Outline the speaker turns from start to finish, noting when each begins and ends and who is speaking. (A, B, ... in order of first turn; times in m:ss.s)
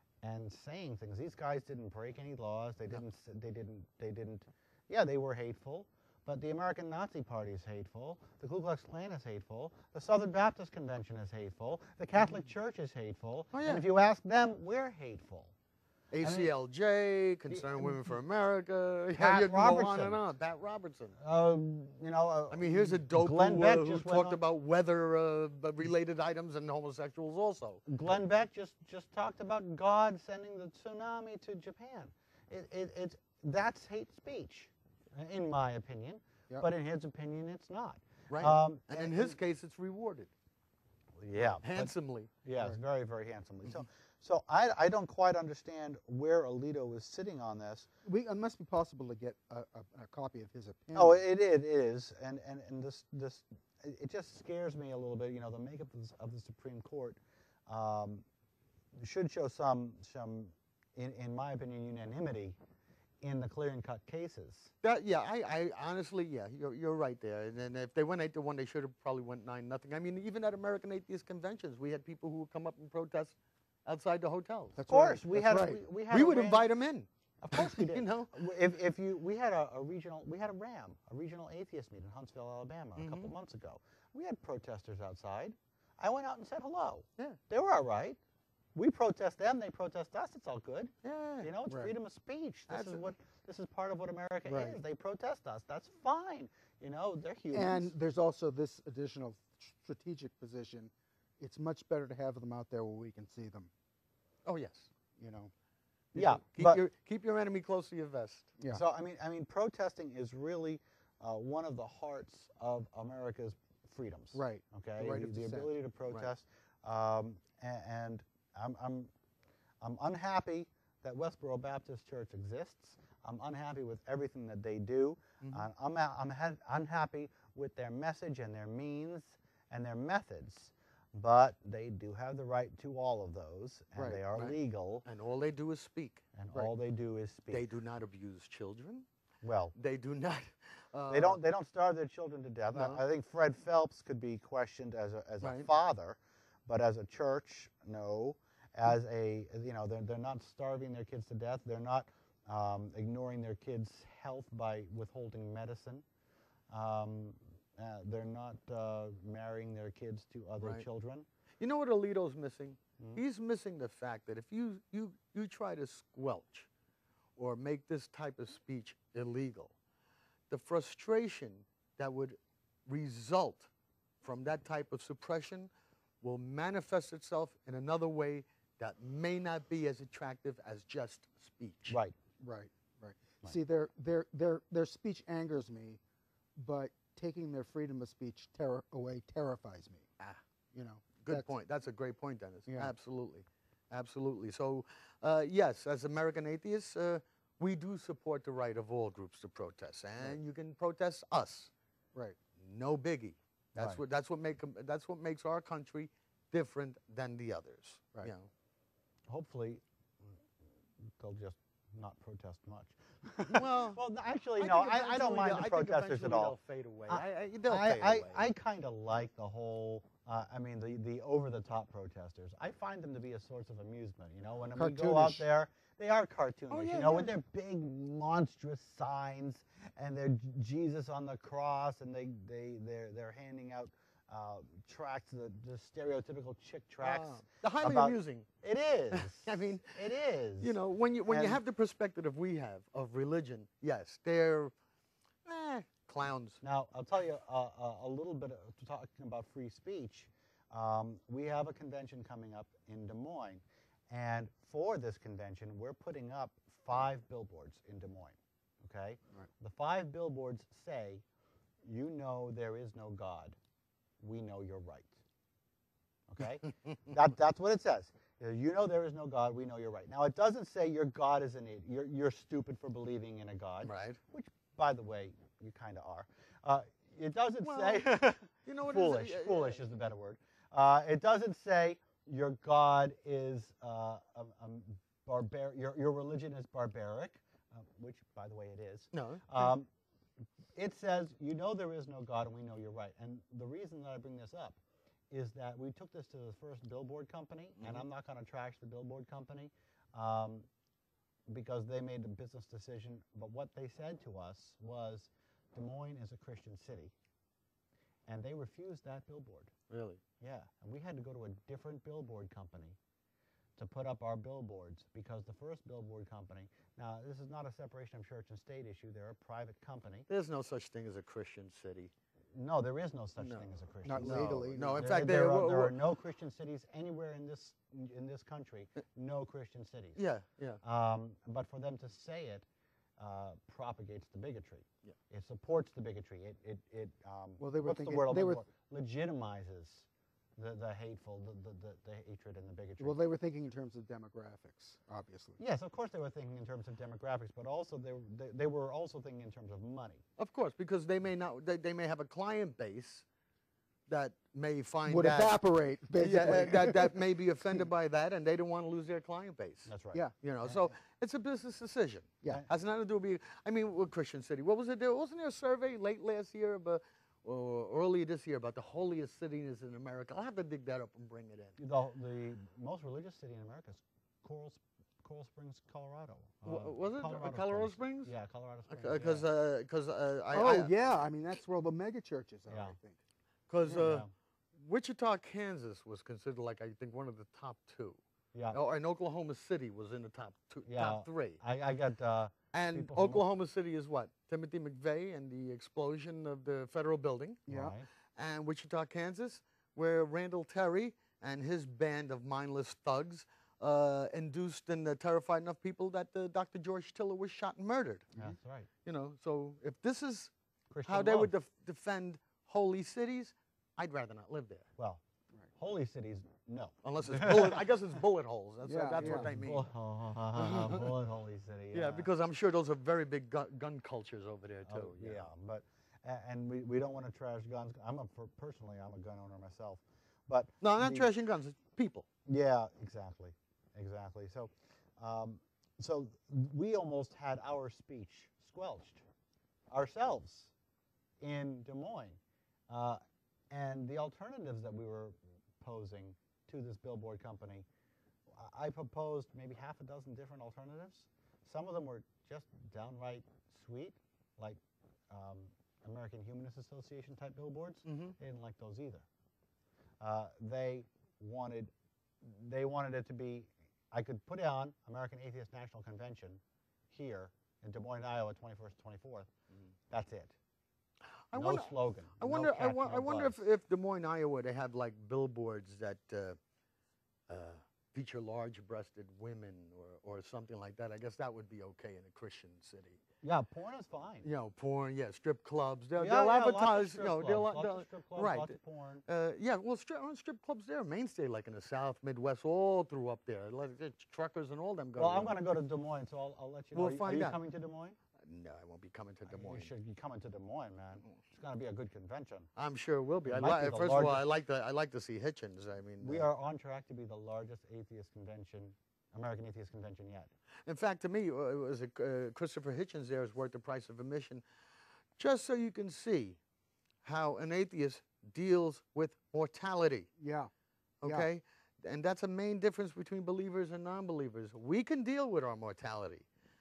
0:00.2-0:15.5 A
0:13.5-0:13.8 B
0:16.1-0:21.2 B
0:16.2-0:16.5 A
0:17.5-0:18.0 A
0:19.1-0:20.2 A
0:21.2-0:24.4 A
0:22.5-0:27.8 B
0:27.9-0:39.3 A
0:38.3-0:40.3 B
0:41.2-0:47.9 A
0:41.4-0:42.3 B
0:48.0-0:51.2 C
0:50.9-0:58.2 A
0:59.0-1:02.6 A
1:03.2-1:04.7 A
1:04.8-1:14.7 B
1:14.8-1:15.8 C
1:14.9-1:16.6 A
1:16.1-1:18.3 B
1:17.4-1:28.2 A
1:23.0-1:23.3 B
1:28.7-1:37.9 A
1:31.0-1:31.5 B
1:32.7-1:33.0 B
1:34.5-1:34.8 C
1:37.5-1:43.7 C
1:44.4-1:44.9 B
1:45.2-1:45.5 C
1:46.1-1:48.5 B
1:46.1-1:46.8 A
1:48.7-1:59.1 A
1:54.3-1:55.7 C
1:59.8-2:15.0 A
2:05.4-2:05.7 B
2:14.0-2:14.2 C
2:14.3-2:16.2 B
2:16.3-2:17.6 A
2:17.5-2:19.1 B
2:19.4-2:19.7 A
2:19.7-2:21.4 B
2:21.1-2:36.0 A
2:22.7-2:23.0 B
2:25.4-2:25.7 B
2:36.7-2:41.2 A
2:40.6-2:40.8 B
2:41.6-2:46.7 B
2:47.4-2:49.7 B
2:50.5-2:53.7 B
2:54.2-2:55.7 B
2:56.2-3:02.0 B
3:01.9-3:02.2 A
3:02.4-3:06.0 C
3:06.6-3:10.1 C
3:10.7-3:11.5 C
3:11.2-3:21.7 B
3:12.7-3:12.9 C
3:22.6-3:28.5 B
3:23.7-3:24.0 A
3:29.3-3:29.8 A
3:31.2-3:36.6 A
3:33.5-3:34.0 B
3:34.6-3:38.5 B
3:37.1-4:00.8 A
3:44.8-3:45.4 C
3:46.7-3:47.3 B
3:57.0-3:58.5 B
3:59.1-4:00.0 B
4:00.6-4:04.7 B
4:01.3-4:01.6 A
4:05.4-4:06.6 B
4:06.6-4:21.2 A
4:21.8-4:23.6 A
4:24.2-4:25.2 A
4:26.3-4:49.9 A
4:33.8-4:34.2 B
4:37.6-4:39.8 B
4:49.1-4:49.7 B
4:50.7-4:54.8 A
4:55.3-5:00.7 A
4:57.8-4:58.0 B
5:01.5-5:07.1 A
5:08.3-5:09.7 A
5:09.9-5:10.2 B
5:10.4-5:13.0 A
5:13.8-5:20.3 A
5:20.3-5:22.1 B
5:22.5-5:30.2 A
5:23.4-5:23.7 B
5:24.0-5:25.0 C
5:24.2-5:26.0 B
5:30.2-5:30.8 B
5:30.8-5:32.7 A
5:33.2-5:43.2 A
5:37.6-5:38.6 C
5:43.0-5:45.6 C
5:45.6-5:50.2 A
5:50.4-5:53.2 B
5:54.1-5:55.5 B
5:55.0-5:57.2 C
5:56.2-6:11.8 B
5:59.9-6:00.8 A
6:11.8-6:19.4 A
6:16.6-6:18.3 B
6:18.9-6:20.9 B
6:20.5-6:23.2 C
6:22.7-6:23.0 A
6:23.7-6:28.2 B
6:23.9-6:24.3 A
6:28.7-6:31.6 B
6:30.8-6:33.4 A
6:32.7-6:37.6 B
6:37.7-6:37.9 C
6:37.7-6:38.1 A
6:38.3-6:48.3 B
6:48.4-6:48.9 A
6:49.0-6:50.5 B
6:50.9-6:51.5 A
6:51.0-6:54.9 B
6:55.8-6:57.8 A
6:57.0-6:59.8 B
6:58.8-6:59.5 C
6:59.2-7:02.3 A
7:00.6-7:01.0 B
7:01.9-7:05.5 B
7:04.8-7:11.3 A
7:10.8-7:12.2 B
7:12.4-7:19.2 A
7:19.9-7:20.7 A
7:21.4-7:27.8 A
7:28.5-7:39.2 A
7:38.0-7:38.4 B
7:40.2-7:49.5 A
7:50.1-7:50.5 A
7:51.5-7:56.6 B
7:51.5-7:53.6 A
7:57.5-8:03.2 B
8:03.4-8:04.5 A
8:04.4-8:15.5 B
8:06.2-8:09.2 A
8:15.2-8:18.2 A
8:16.9-8:17.6 B
8:18.4-8:19.9 B
8:19.5-8:22.7 A
8:22.8-8:26.5 B
8:23.4-8:24.4 A
8:26.2-8:30.5 A
8:30.8-8:34.6 B
8:35.4-8:36.6 B
8:37.2-8:40.3 B
8:40.4-8:40.7 C
8:41.2-8:46.4 B